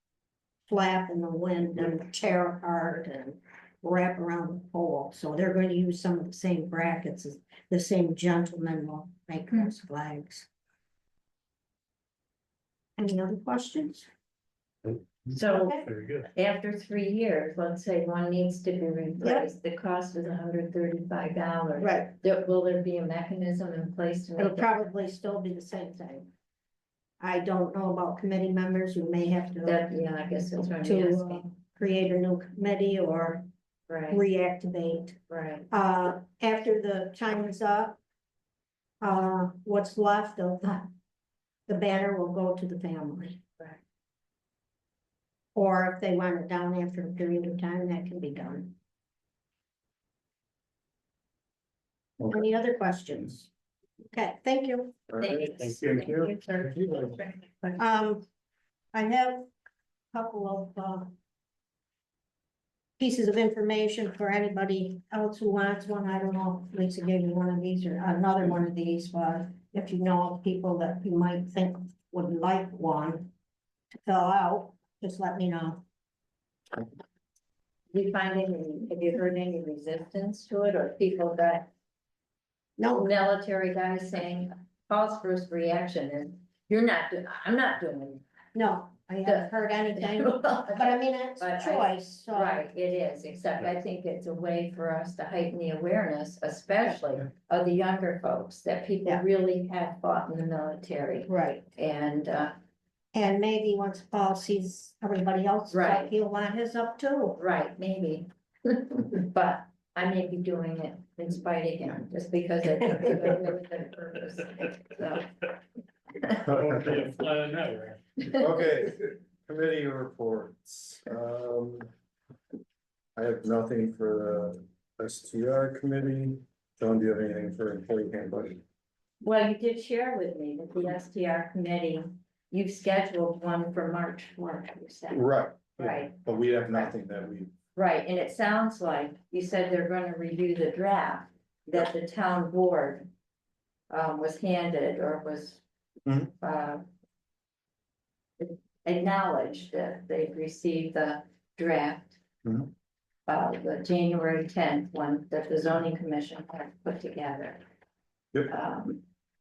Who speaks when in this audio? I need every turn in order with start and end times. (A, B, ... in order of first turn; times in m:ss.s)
0:00.7-0:10.5 A
0:13.0-0:14.1 A
0:14.8-0:16.3 B
0:15.3-0:24.8 C
0:15.5-0:15.8 A
0:19.2-0:19.5 A
0:21.8-0:22.1 A
0:24.4-0:26.3 A
0:27.2-0:29.8 A
0:29.6-0:31.5 C
0:30.8-0:33.5 A
0:33.9-0:34.2 C
0:34.1-0:35.2 A
0:35.3-0:35.7 C
0:35.7-0:38.0 A
0:39.0-0:40.9 A
0:41.7-0:43.4 A
0:45.5-0:48.8 A
0:52.2-0:53.5 A
0:54.1-0:55.0 A
0:55.1-0:57.1 D
0:55.2-0:57.8 C
0:55.6-0:56.1 B
0:57.8-0:58.2 A
0:58.9-0:59.5 A
1:00.1-1:01.1 A
1:03.0-1:13.3 A
1:13.9-1:15.8 A
1:17.9-1:21.7 C
1:22.8-1:23.1 A
1:22.9-1:28.2 C
1:28.5-1:32.6 A
1:29.2-1:42.5 C
1:41.3-1:41.6 A
1:43.1-1:47.4 A
1:45.7-1:46.1 C
1:47.4-1:55.5 C
1:56.2-1:56.4 C
1:56.4-1:58.0 B
1:56.5-1:56.9 D
1:58.3-2:01.9 D
2:03.2-2:08.6 D
2:09.2-2:15.2 C
2:15.1-2:17.5 D
2:15.8-2:16.2 C
2:17.8-2:23.1 C
2:23.9-2:25.6 C
2:26.0-2:26.3 D
2:26.4-2:26.8 C
2:28.4-2:32.2 C
2:32.4-2:32.7 D
2:33.3-2:37.6 C
2:38.5-2:39.0 C